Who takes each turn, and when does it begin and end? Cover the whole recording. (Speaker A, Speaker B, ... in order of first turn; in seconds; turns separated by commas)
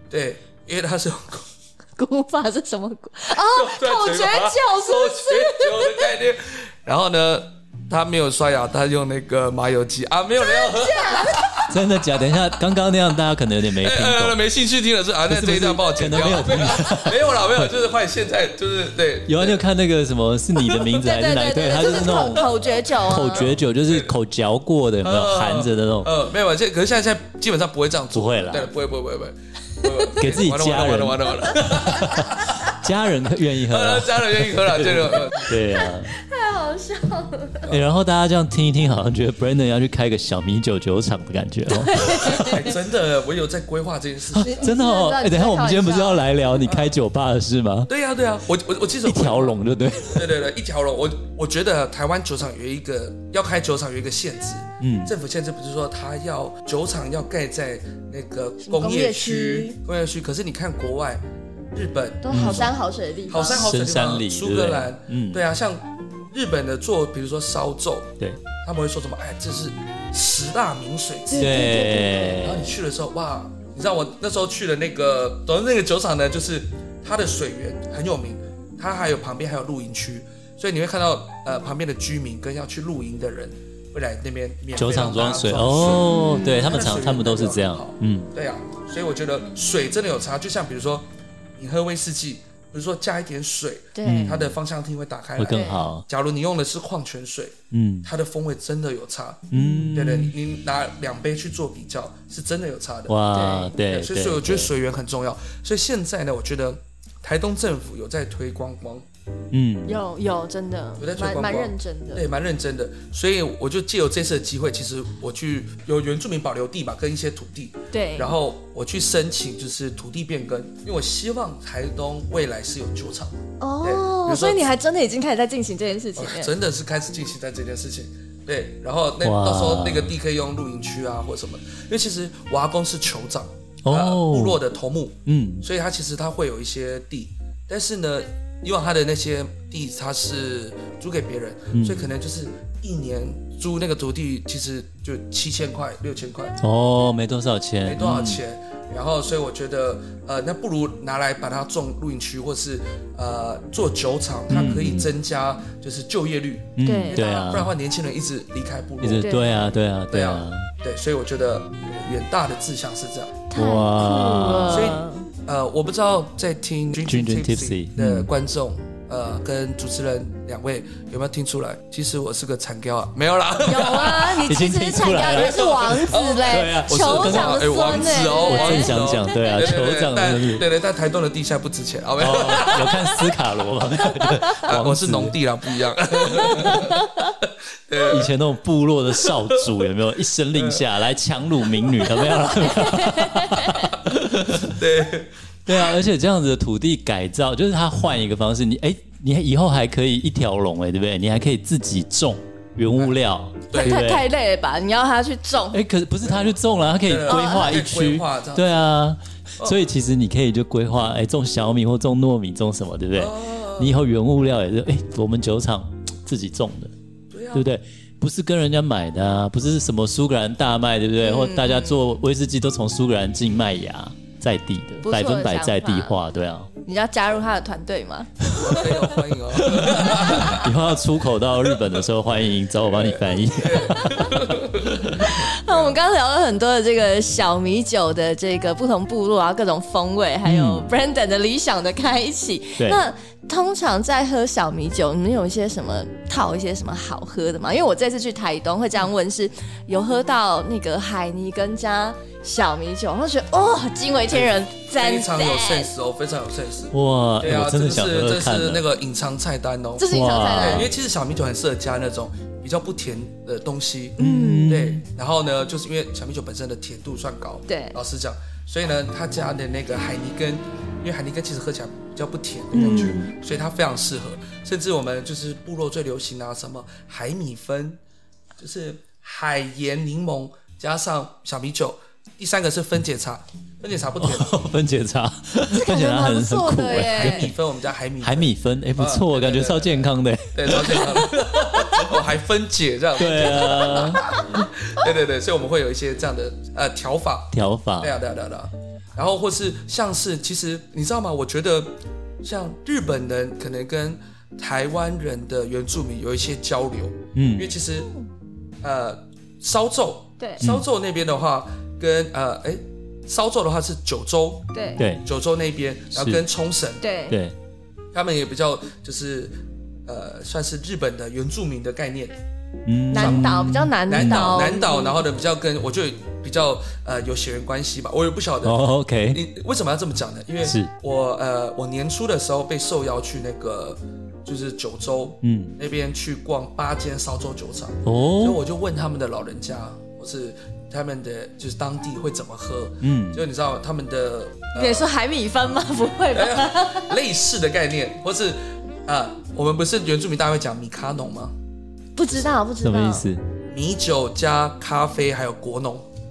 Speaker A: 0.1-1.5, Speaker B: 2.0-6.1, Speaker A: 3.4-11.8, Speaker B: 10.4-11.6, Speaker C: 11.7-14.4, Speaker A: 13.8-19.6, Speaker C: 15.3-17.7, Speaker C: 19.3-26.1, Speaker B: 20.7-23.5, Speaker A: 23.4-24.1, Speaker A: 25.0-32.8, Speaker C: 28.1-28.7, Speaker C: 30.2-36.1, Speaker A: 33.6-35.6, Speaker B: 35.6-37.7, Speaker C: 37.7-42.6, Speaker B: 41.7-42.7, Speaker A: 42.3-44.6, Speaker C: 44.4-47.9, Speaker B: 44.4-46.3, Speaker A: 46.6-47.0, Speaker A: 47.9-62.7, Speaker C: 49.0-50.4, Speaker C: 54.8-55.1, Speaker B: 58.6-59.8, Speaker B: 62.2-63.7, Speaker C: 62.3-62.7, Speaker A: 63.3-71.6, Speaker C: 63.4-65.4, Speaker B: 71.3-72.5, Speaker C: 71.4-72.8, Speaker A: 72.4-103.2, Speaker C: 84.8-88.3, Speaker B: 86.0-86.7, Speaker B: 94.0-94.4, Speaker C: 94.0-94.6, Speaker C: 95.4-96.1, Speaker B: 95.5-95.8, Speaker C: 97.7-98.1, Speaker C: 99.5-100.3, Speaker B: 99.5-99.9, Speaker C: 103.1-104.7, Speaker B: 103.3-103.8, Speaker A: 103.9-109.0, Speaker C: 109.5-110.0, Speaker B: 109.9-112.2, Speaker A: 111.0-124.6, Speaker B: 117.9-118.3, Speaker B: 123.6-126.5, Speaker A: 126.2-146.6, Speaker C: 129.2-130.1, Speaker C: 133.8-134.6, Speaker C: 135.3-135.7, Speaker C: 141.7-142.1, Speaker C: 146.6-148.4, Speaker A: 147.8-159.4, Speaker C: 154.5-155.1, Speaker C: 156.8-157.7, Speaker B: 156.8-157.5, Speaker C: 159.0-160.7, Speaker B: 159.2-159.6, Speaker A: 160.1-163.4, Speaker B: 163.5-165.3, Speaker C: 163.6-165.0, Speaker A: 164.7-174.4, Speaker C: 167.1-168.3, Speaker B: 173.6-179.7, Speaker C: 173.9-177.7, Speaker A: 175.2-183.0, Speaker C: 178.4-180.7, Speaker C: 182.2-185.4, Speaker B: 184.2-184.6, Speaker A: 184.6-188.3, Speaker B: 186.3-187.3, Speaker C: 186.5-186.8, Speaker C: 188.1-194.8, Speaker A: 190.6-190.8, Speaker B: 192.6-193.9, Speaker A: 194.1-195.9, Speaker C: 195.7-204.3, Speaker A: 203.7-204.0, Speaker B: 203.7-205.8, Speaker C: 205.7-216.9, Speaker A: 206.3-208.8, Speaker B: 207.3-207.7, Speaker A: 213.2-214.0, Speaker A: 217.3-217.7, Speaker C: 217.5-226.7, Speaker B: 221.2-222.1, Speaker B: 225.0-226.2, Speaker B: 226.9-228.9, Speaker A: 228.5-230.8, Speaker C: 229.6-235.3, Speaker A: 232.9-236.0, Speaker B: 233.9-234.3, Speaker B: 235.1-255.9, Speaker C: 240.4-240.9, Speaker A: 254.3-278.0, Speaker C: 256.9-258.8, Speaker B: 260.0-260.9, Speaker C: 260.1-260.9, Speaker B: 264.2-264.8, Speaker C: 264.2-265.0, Speaker B: 267.7-268.0, Speaker B: 272.7-273.4, Speaker C: 272.8-273.1, Speaker A: 278.6-284.6, Speaker C: 284.2-287.6, Speaker B: 285.7-287.5, Speaker A: 287.0-301.9, Speaker C: 288.2-292.1, Speaker C: 293.2-294.7, Speaker C: 297.5-298.2, Speaker A: 302.4-308.1, Speaker C: 307.4-307.8, Speaker A: 308.8-314.7, Speaker C: 310.6-310.9, Speaker B: 314.7-315.0, Speaker C: 315.0-315.2, Speaker A: 315.2-317.1, Speaker C: 316.1-316.4, Speaker B: 317.0-317.4, Speaker C: 317.3-317.6, Speaker A: 318.1-322.4, Speaker C: 322.9-324.6, Speaker B: 323.1-325.2, Speaker A: 323.1-323.6, Speaker A: 324.1-345.1, Speaker C: 328.6-329.4, Speaker C: 330.6-330.9, Speaker C: 335.4-335.8, Speaker C: 338.1-338.6, Speaker C: 343.0-343.5, Speaker B: 344.7-347.2, Speaker A: 346.3-351.5, Speaker B: 352.2-353.3, Speaker C: 352.8-353.4, Speaker A: 353.7-356.1